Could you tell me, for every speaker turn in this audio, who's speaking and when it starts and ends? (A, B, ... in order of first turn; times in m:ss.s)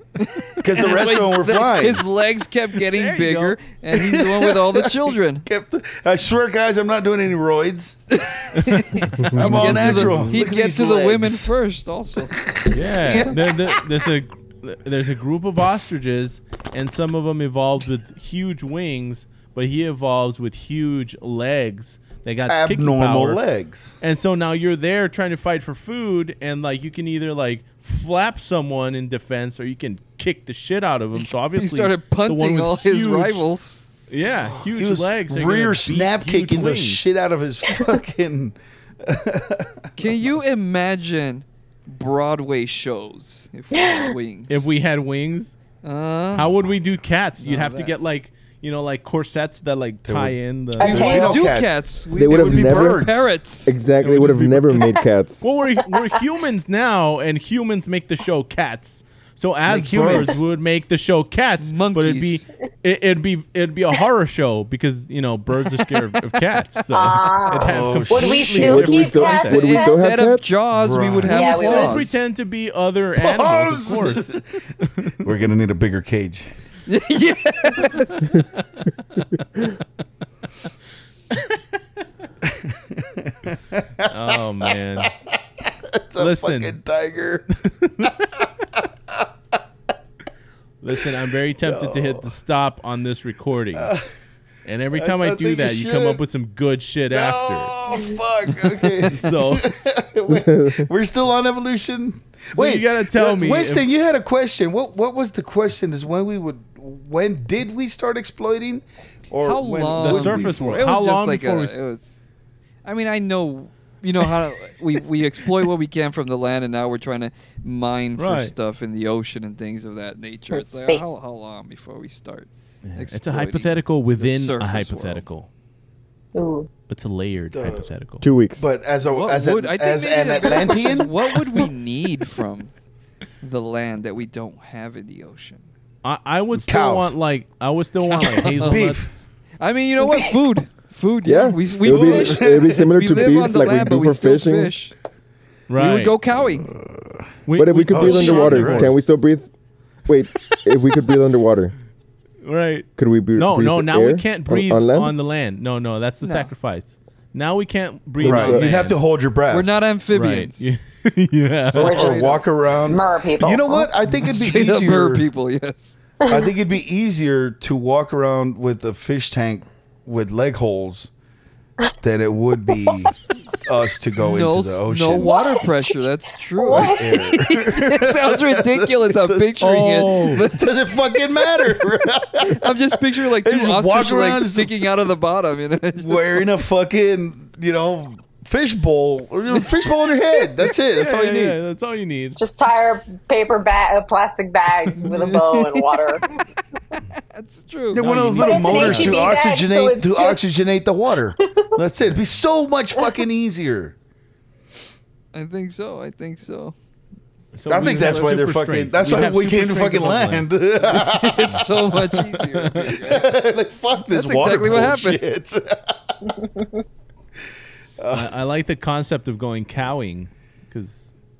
0:00.2-0:05.4 A
0:00.6-0:02.0 B
0:02.9-0:03.6 C
0:03.9-0:08.0 B
0:08.2-0:12.4 A
0:08.6-0:10.4 C
0:09.2-0:11.5 B
0:12.4-0:13.8 B
0:12.7-0:23.4 C
0:22.5-0:24.0 B
0:24.0-0:33.4 C
0:31.1-0:33.8 A
0:34.1-0:37.0 C
0:34.6-0:39.9 B
0:40.0-0:44.7 A
0:43.7-0:44.1 D
0:44.5-0:45.6 C
0:45.8-0:46.5 A
0:46.3-0:51.4 C
0:47.4-0:48.0 A
0:50.0-0:53.3 B
0:50.8-0:51.4 D
0:50.8-0:53.8 A
0:52.1-0:53.1 E
0:53.6-0:55.5 E
0:54.0-1:09.8 C
0:55.8-0:56.2 D
0:59.6-1:00.4 B
1:01.6-1:02.4 A
1:06.9-1:10.0 D
1:07.5-1:08.6 B
1:08.6-1:10.6 E
1:09.3-1:12.2 A
1:10.7-1:11.4 B
1:11.3-1:12.0 D
1:11.3-1:14.4 C
1:13.2-1:14.4 B
1:15.2-1:16.5 B
1:16.9-1:18.3 A
1:22.4-1:25.1 B
1:24.1-1:25.1 C
1:25.6-1:27.5 B
1:26.2-1:26.8 C
1:27.5-1:28.1 C
1:30.8-1:33.9 C
1:31.6-1:32.3 B
1:33.7-1:34.0 B
1:34.6-1:37.7 C
1:34.9-1:36.2 B
1:37.1-1:50.8 B
1:39.0-1:39.7 C
1:40.3-1:40.9 E
1:42.5-1:43.9 C
1:49.4-1:52.2 A
1:50.0-1:51.8 C
1:52.8-2:05.3 A
1:58.2-1:58.5 C
2:00.5-2:01.1 D
2:02.8-2:05.5 C
2:06.3-2:06.7 D
2:06.9-2:08.3 C
2:07.5-2:07.9 B
2:08.2-2:08.6 E
2:08.5-2:11.6 B
2:09.1-2:12.7 A
2:13.4-2:15.6 A
2:16.0-2:19.3 C
2:16.5-2:17.1 B
2:18.0-2:18.8 A
2:18.6-2:19.1 B
2:19.6-2:24.9 A
2:20.0-2:20.3 D
2:21.2-2:24.7 E
2:21.8-2:22.9 B
2:25.7-2:26.2 C
2:25.8-2:26.7 A
2:26.7-2:27.2 B
2:27.4-2:29.0 C
2:27.6-2:29.5 E
2:27.9-2:29.0 B
2:30.0-2:31.7 E
2:32.4-2:39.0 C
2:33.0-2:35.1 E
2:36.2-2:36.5 A
2:38.2-2:38.7 E
2:38.2-2:39.7 B
2:39.5-2:40.7 A
2:40.1-2:42.2 C
2:41.7-2:45.2 B
2:41.7-2:42.4 A
2:41.8-2:43.9 D
2:44.1-2:46.0 A
2:46.3-2:51.1 B
2:52.0-2:55.3 B
2:54.2-3:01.8 A
2:55.2-2:56.0 D
2:56.6-2:57.3 D
2:56.7-2:59.5 B
2:59.6-3:00.5 C
3:00.4-3:04.7 B
3:02.4-3:06.6 A
3:06.0-3:11.6 B
3:10.9-3:12.4 C
3:12.4-3:16.2 D
3:15.0-3:16.0 A
3:16.9-3:18.1 A
3:17.9-3:23.9 B
3:18.0-3:19.4 C
3:18.4-3:20.5 D
3:25.3-3:26.7 A
3:27.5-3:30.5 C
3:27.7-3:31.7 B
3:27.8-3:28.3 A
3:30.9-3:33.3 A
3:32.1-3:33.0 C
3:33.0-3:36.1 B
3:34.1-3:35.2 A
3:38.0-3:38.3 B
3:38.0-3:41.1 C